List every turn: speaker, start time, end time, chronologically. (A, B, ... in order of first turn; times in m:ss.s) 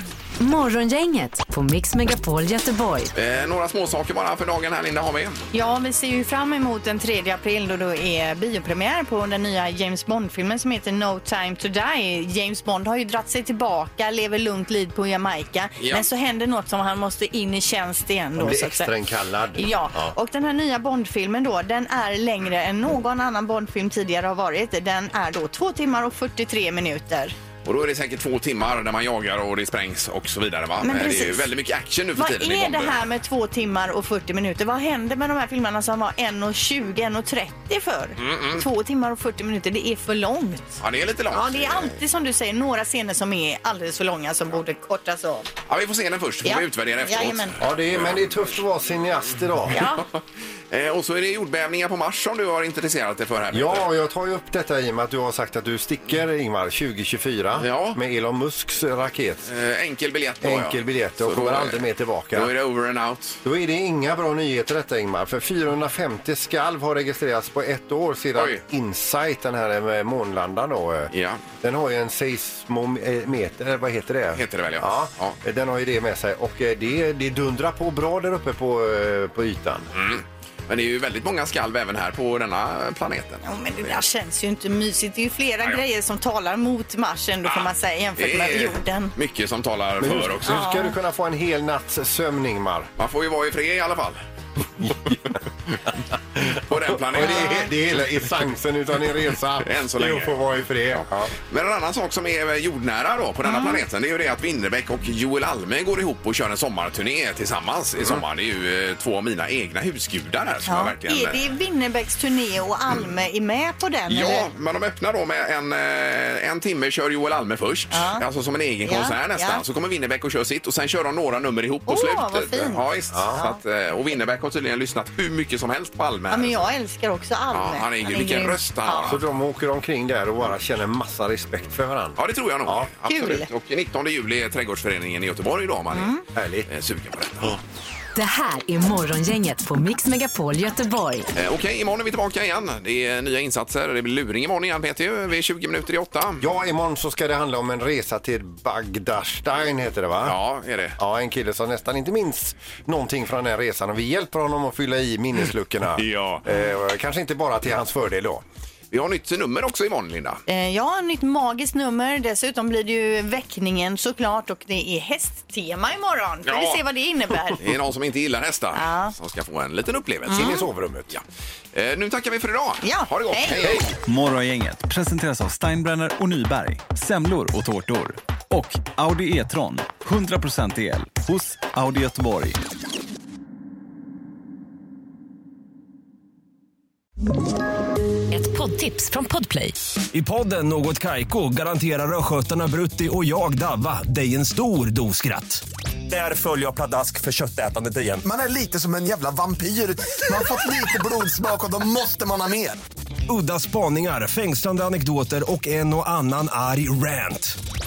0:00.4-0:03.1 A
0:03.1-0:05.4 B
0:05.5-0:18.9 C
0:15.8-0:16.0 B
0:18.4-0:20.1 D
0:19.5-0:27.3 C
0:27.6-0:33.0 B
0:30.8-0:31.5 C
0:32.1-0:45.5 C
0:38.2-0:38.6 B
0:40.8-0:42.0 B
0:45.7-0:48.4 B
0:46.4-0:47.6 C
0:47.6-0:49.8 D
0:49.7-0:50.0 C
0:50.7-0:53.9 B
0:53.5-0:59.5 D
0:57.6-0:58.0 B
0:59.4-1:03.4 B
1:00.4-1:02.5 D
1:03.4-1:19.9 D
1:08.3-1:08.6 B
1:11.1-1:11.4 B
1:14.3-1:15.4 B
1:19.9-1:24.0 B
1:23.4-1:29.1 C
1:27.4-1:30.6 B
1:30.0-1:32.9 D
1:30.5-1:30.9 C
1:33.0-1:34.2 B
1:34.8-1:35.2 D
1:36.4-1:41.3 D
1:36.6-1:37.8 B
1:37.2-1:37.6 C
1:39.6-1:51.4 B
1:43.4-1:43.8 C
1:50.7-1:54.5 C
1:54.1-2:06.7 B
1:57.9-1:58.2 C
1:58.8-1:59.6 C
2:01.9-2:03.6 C
2:03.1-2:03.4 D
2:06.3-2:09.2 C
2:07.5-2:09.2 B
2:09.0-2:12.9 D
2:12.2-2:16.1 B
2:13.1-2:13.5 C
2:15.9-2:16.2 C
2:16.3-2:16.7 D
2:16.7-2:17.6 B
2:18.1-2:21.3 A
2:21.3-2:26.4 B
2:26.4-2:30.4 D
2:30.2-2:31.0 B
2:31.0-2:38.4 D
2:36.0-2:36.4 B
2:38.9-2:40.4 B
2:40.5-2:47.6 C
2:46.4-2:46.8 B
2:47.6-2:51.2 B
2:48.7-2:49.1 C
2:50.3-2:50.6 C
2:50.3-2:51.1 D
2:51.7-2:53.9 B
2:52.8-2:53.6 C
2:53.6-2:53.9 D
2:54.0-3:02.6 E
3:08.3-3:09.8 A
3:10.1-3:18.2 F
3:18.2-3:22.8 G
3:23.3-3:27.6 F